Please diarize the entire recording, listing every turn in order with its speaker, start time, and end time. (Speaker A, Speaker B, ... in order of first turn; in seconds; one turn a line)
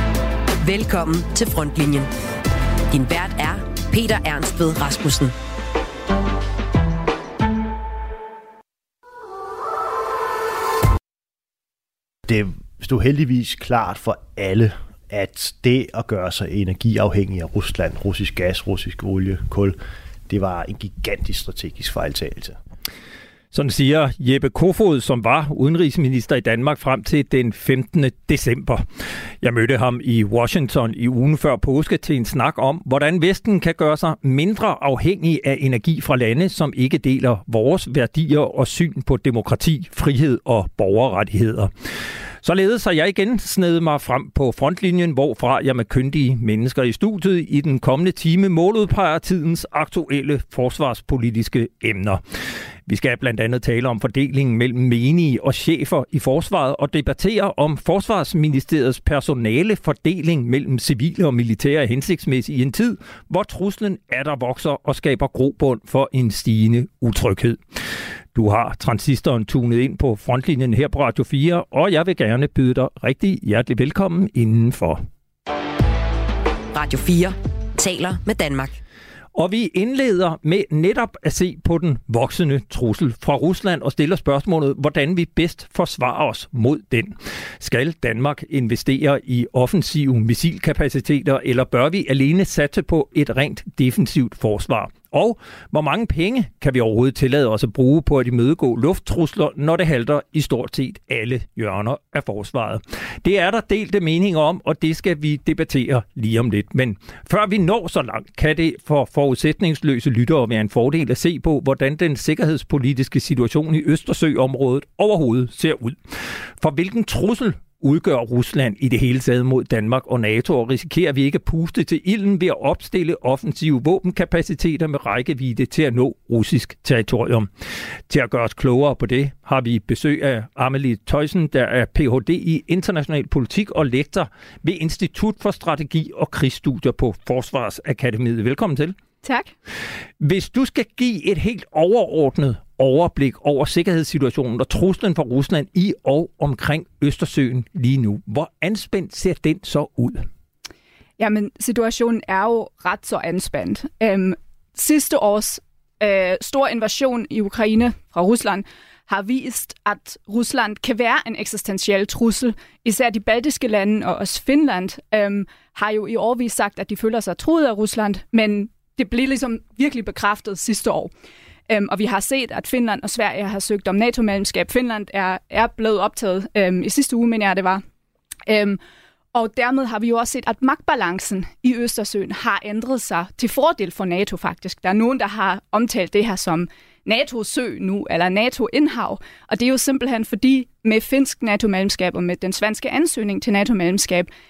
Speaker A: 0.6-2.1
Speaker A: 2.9-5.3
Speaker B: 12.3-19.8
Speaker B: 20.3-22.6
Speaker C: 23.5-28.9
Speaker C: 29.4-41.7
Speaker C: 42.4-52.2
Speaker C: 52.9-67.6
Speaker C: 68.3-75.0
Speaker A: 76.7-78.8
Speaker C: 79.3-116.0
Speaker C: 116.6-127.5
Speaker C: 128.1-138.9
Speaker D: 139.2-139.5
Speaker C: 140.2-150.3
Speaker D: 151.2-171.1
Speaker D: 171.7-177.8
Speaker D: 178.5-178.8
Speaker D: 179.3-194.3